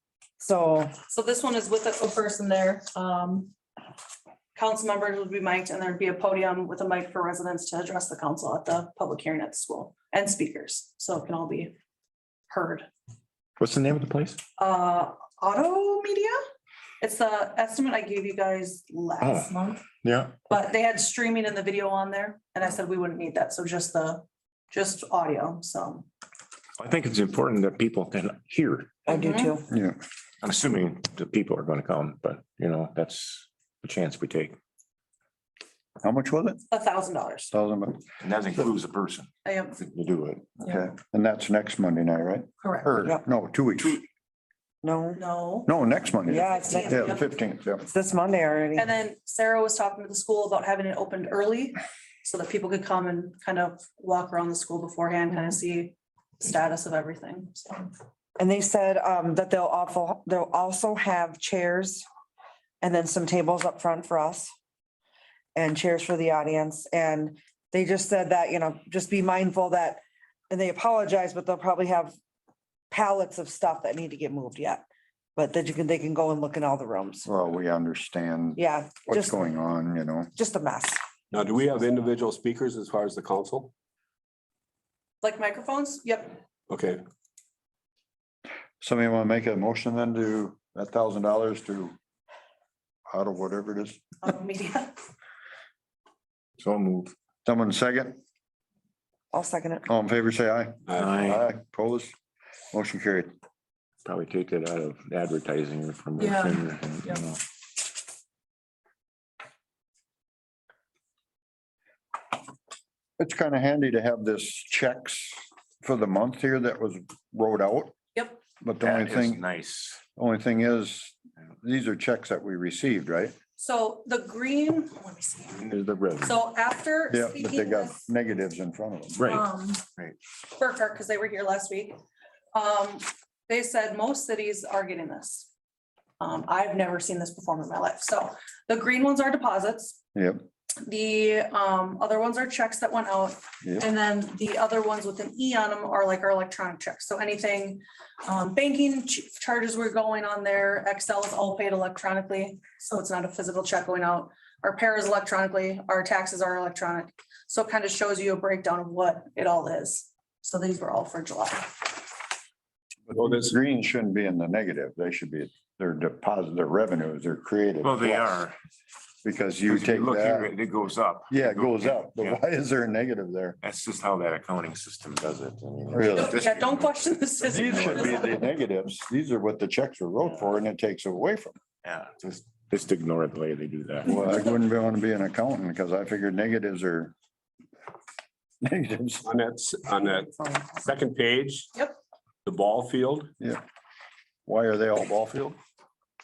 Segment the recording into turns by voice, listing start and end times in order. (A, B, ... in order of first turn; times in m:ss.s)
0:00.4-0:00.9 A
0:01.1-0:03.5 B
0:04.6-0:11.8 B
0:12.5-0:12.9 B
0:13.6-0:14.4 C
0:14.6-0:16.4 B
0:17.0-0:19.8 B
0:19.2-0:19.5 C
0:20.0-0:20.4 C
0:20.5-0:26.1 B
0:26.8-0:28.9 C
0:29.1-0:29.5 B
0:29.1-0:29.7 A
0:29.7-0:30.0 D
0:30.4-0:34.6 C
0:36.0-0:36.6 D
0:36.7-0:37.5 B
0:37.5-0:38.0 D
0:38.2-0:40.6 C
0:39.4-0:39.8 B
0:40.6-0:44.0 D
0:42.6-0:42.9 B
0:44.8-0:45.2 A
0:45.2-0:45.7 B
0:45.7-0:47.9 D
0:46.3-0:47.2 A
0:46.3-0:47.3 B
0:47.9-0:48.9 A
0:48.7-0:57.9 B
0:58.4-1:02.0 A
1:02.8-1:04.5 A
1:05.5-1:12.2 A
1:12.9-1:14.8 A
1:15.4-1:17.3 A
1:17.2-1:20.3 D
1:18.6-1:19.4 A
1:20.4-1:21.0 A
1:21.3-1:23.7 E
1:25.2-1:26.4 B
1:26.7-1:27.0 E
1:28.8-1:31.9 D
1:33.1-1:34.0 D
1:34.2-1:34.9 B
1:36.6-1:37.1 C
1:37.4-1:38.2 D
1:39.3-1:39.9 A
1:39.8-1:42.1 D
1:41.0-1:41.4 C
1:42.7-1:43.3 D
1:44.0-1:47.4 C
1:46.2-1:47.2 B
1:53.2-1:57.9 D
1:58.1-1:58.4 B
1:58.6-1:59.4 D
1:58.8-2:00.0 C
2:00.1-2:03.4 D
2:03.6-2:05.6 B
2:05.6-2:06.4 C
2:06.2-2:08.0 B
2:07.1-2:09.2 D
2:09.2-2:09.4 C
2:09.2-2:09.8 B
2:10.6-2:12.0 B
2:12.5-2:15.5 B
2:16.2-2:20.0 B
2:20.1-2:20.4 D
2:20.8-2:42.1 B
2:43.1-2:48.4 D
2:43.2-2:43.5 E
2:47.8-2:48.5 C
2:49.2-2:50.5 D
2:49.6-2:52.4 C
2:51.3-2:53.6 D
2:53.6-2:58.3 C
2:55.9-2:56.4 D
2:56.1-2:58.4 B
2:57.5-3:01.6 D
3:01.8-3:04.2 C
3:04.0-3:07.1 D
3:04.1-3:04.5 B
3:08.6-3:09.2 D
3:09.2-3:11.7 E
3:12.4-3:13.3 E
3:14.5-3:15.6 D